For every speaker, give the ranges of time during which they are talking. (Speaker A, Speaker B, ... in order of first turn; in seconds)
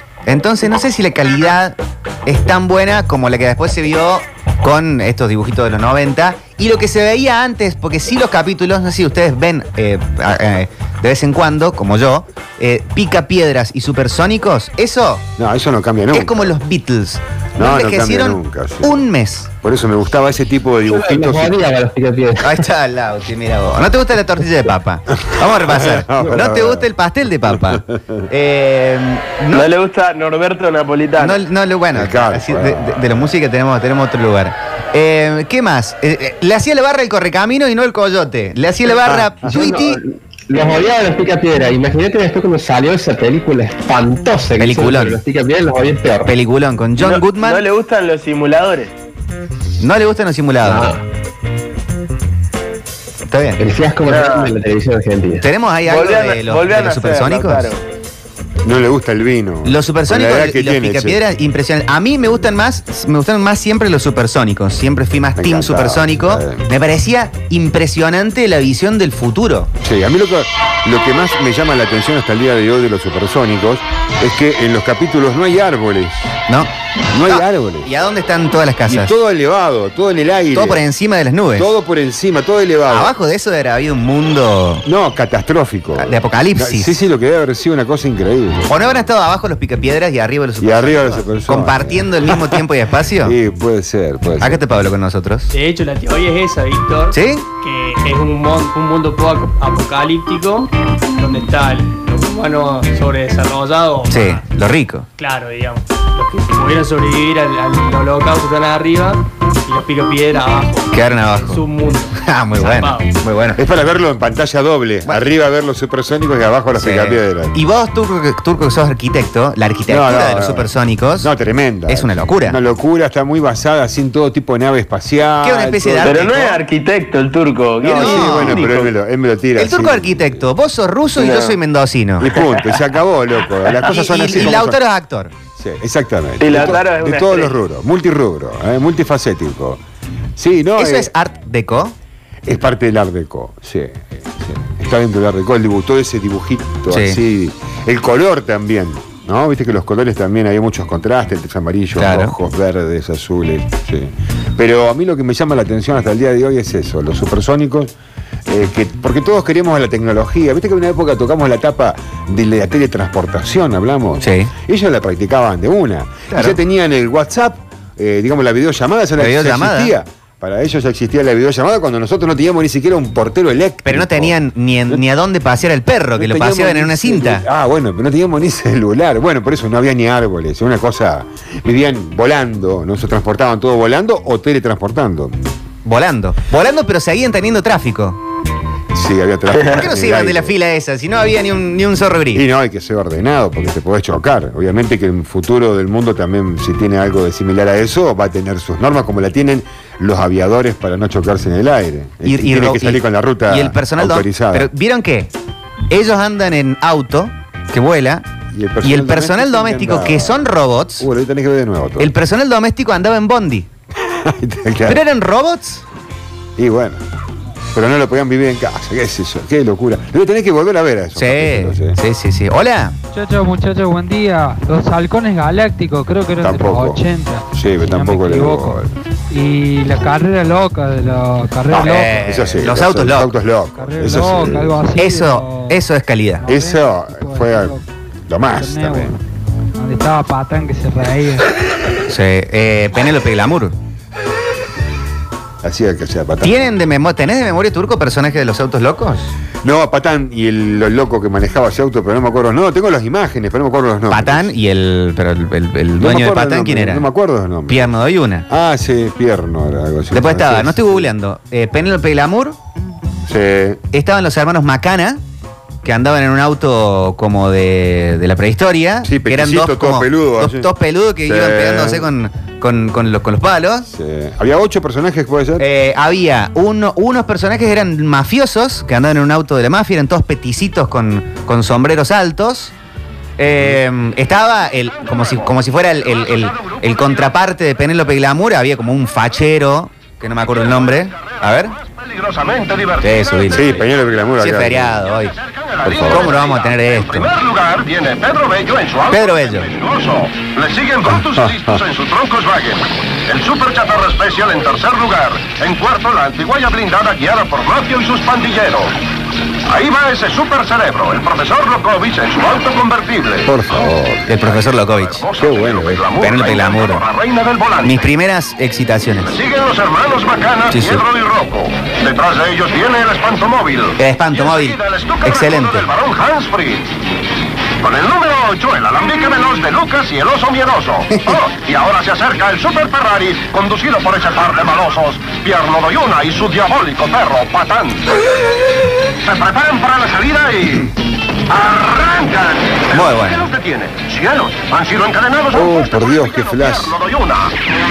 Speaker A: 0.3-15.2, 16.1-19.5, 22.4-29.7, 31.2-40.0, 44.6-45.2, 46.2-47.6, 49.8-51.0, 53.3-53.6, 55.4-57.7, 59.6-69.7, 77.3-79.1, 80.5-81.7, 82.9-84.8, 86.0-87.0, 88.7-93.4, 94.4-95.5, 97.1-97.5, 104.1-105.1, 110.9-111.7, 112.2-113.6, 116.8-121.3, 121.9-122.6, 125.4-126.6, 127.8-128.7, 129.6-132.4, 133.8-135.3, 140.8-141.9, 146.9-147.2, 152.0-152.3, 164.2-164.5, 166.3-166.6, 169.2-169.9, 173.8-177.4, 185.8-188.2, 189.7-192.4, 202.2-205.3, 205.9-208.3, 208.8-211.1, 212.0-213.7, 214.9-215.8, 221.2-222.9, 231.7-233.3, 235.0-236.5, 242.1-243.8, 246.4-249.3, 254.1-257.1, 257.7-258.5, 260.1-262.6, 263.9-265.2, 265.8-273.9, 275.6-282.7, 283.4-291.8, 293.0-293.8, 294.4-295.4, 296.0-297.3, 299.1-299.7, 314.3-315.2, 316.2-317.1, 317.8-319.4, 320.7-321.0, 324.0-325.9, 331.1-331.4, 342.9-343.5
Speaker B: 15.4-16.5, 17.6-19.1, 19.6-21.7, 25.6-26.9, 27.5-28.2, 31.9-33.1, 39.0-39.5, 58.6-61.2, 65.4-66.7, 69.8-76.3, 77.1-77.9, 78.9-80.8, 81.5-83.1, 84.9-89.1, 90.6-92.7, 93.2-94.6, 113.6-117.6, 119.9-126.3, 127.8-130.5, 132.2-134.8, 135.6-139.8, 140.4-141.1, 142.5-157.9, 158.5-174.4, 176.2-185.4, 188.9-190.6, 192.3-204.7, 208.5-212.1, 214.0-215.0, 216.6-217.0, 217.7-222.0, 226.4-228.9, 231.7-234.8, 236.4-239.2, 245.6-246.8, 249.6-254.5, 256.0-257.9, 258.5-261.1, 263.3-263.8, 269.0-270.7, 271.2-272.1, 273.9-275.7, 293.5-295.0, 295.8-296.3, 301.1-301.8, 313.4-314.5, 315.4-316.1, 345.5-346.9
Speaker C: 20.9-22.6, 39.5-46.3, 50.6-51.0, 53.6-55.5
Speaker D: 29.5-31.4, 47.0-48.9, 54.1-54.6, 55.9-57.8, 126.0-128.9, 131.2-131.6, 136.4-137.6
Speaker E: 95.5-104.4, 105.2-113.1
Speaker F: 223.1-232.2, 233.8-235.8, 236.4-237.8, 238.5-239.2, 239.8-241.5
Speaker G: 286.3-286.9, 290.4-293.5, 295.2-308.9, 309.7-318.0, 319.3-326.9, 327.8-338.2, 339.2-340.9, 341.5-347.5